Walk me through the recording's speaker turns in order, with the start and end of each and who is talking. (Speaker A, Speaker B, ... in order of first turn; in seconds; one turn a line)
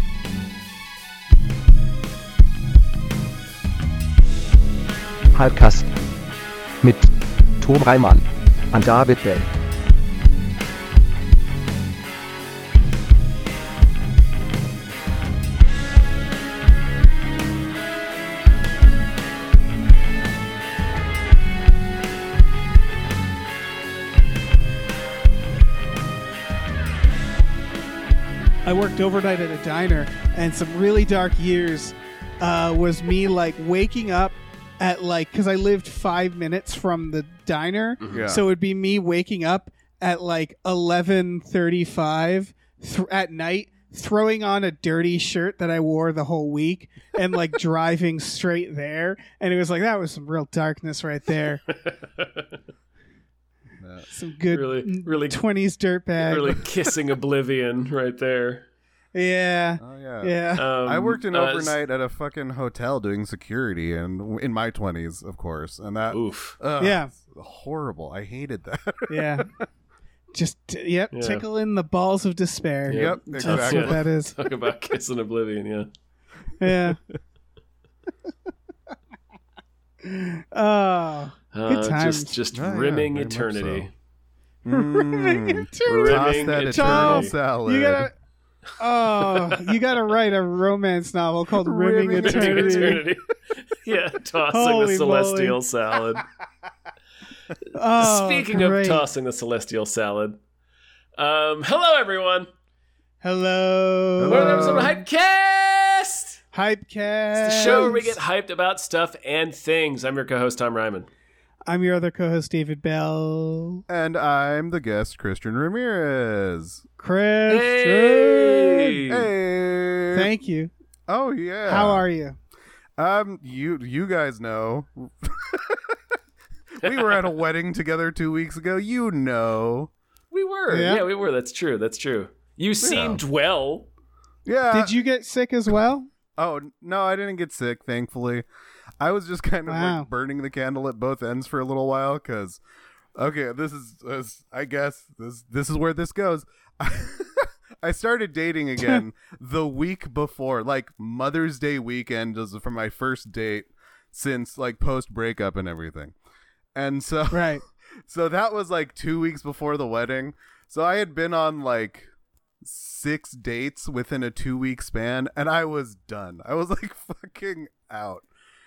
Speaker A: 5.3-5.9
Speaker A: 6.8-9.5
Speaker B: 28.6-51.6
Speaker C: 38.0-38.3
Speaker D: 38.1-38.4
Speaker C: 51.7-52.5
Speaker B: 54.1-56.6
Speaker C: 54.5-55.4
Speaker C: 56.2-58.6
Speaker B: 59.1-60.6
Speaker D: 59.8-69.6
Speaker C: 60.6-61.8
Speaker C: 66.1-66.5
Speaker B: 66.8-67.1
Speaker B: 69.1-69.5
Speaker B: 70.3-74.3
Speaker C: 71.1-71.4
Speaker C: 72.9-75.9
Speaker D: 72.9-74.0
Speaker B: 76.6-77.0
Speaker B: 80.0-82.3
Speaker C: 81.5-83.9
Speaker D: 82.5-83.8
Speaker D: 84.6-88.1
Speaker B: 84.7-88.1
Speaker C: 85.8-87.3
Speaker B: 88.8-93.0
Speaker C: 89.2-89.8
Speaker D: 91.6-93.0
Speaker C: 92.2-96.2
Speaker B: 94.5-95.6
Speaker B: 97.7-99.0
Speaker C: 98.0-100.4
Speaker C: 101.2-102.5
Speaker B: 103.2-104.9
Speaker D: 104.2-105.0
Speaker C: 104.3-106.4
Speaker B: 106.5-108.1
Speaker C: 107.4-111.1
Speaker B: 111.7-113.8
Speaker D: 113.9-116.8
Speaker B: 117.0-118.9
Speaker C: 117.5-119.2
Speaker D: 119.0-120.3
Speaker B: 120.1-120.7
Speaker D: 121.1-122.0
Speaker B: 121.7-122.3
Speaker D: 123.0-126.0
Speaker D: 126.8-129.9
Speaker C: 126.8-127.2
Speaker C: 130.3-133.9
Speaker B: 130.7-131.0
Speaker D: 132.8-133.2
Speaker D: 134.4-134.9
Speaker B: 134.7-136.1
Speaker D: 136.4-138.4
Speaker D: 139.0-142.6
Speaker B: 139.7-140.1
Speaker D: 143.2-156.1
Speaker D: 156.7-168.2
Speaker B: 157.3-157.6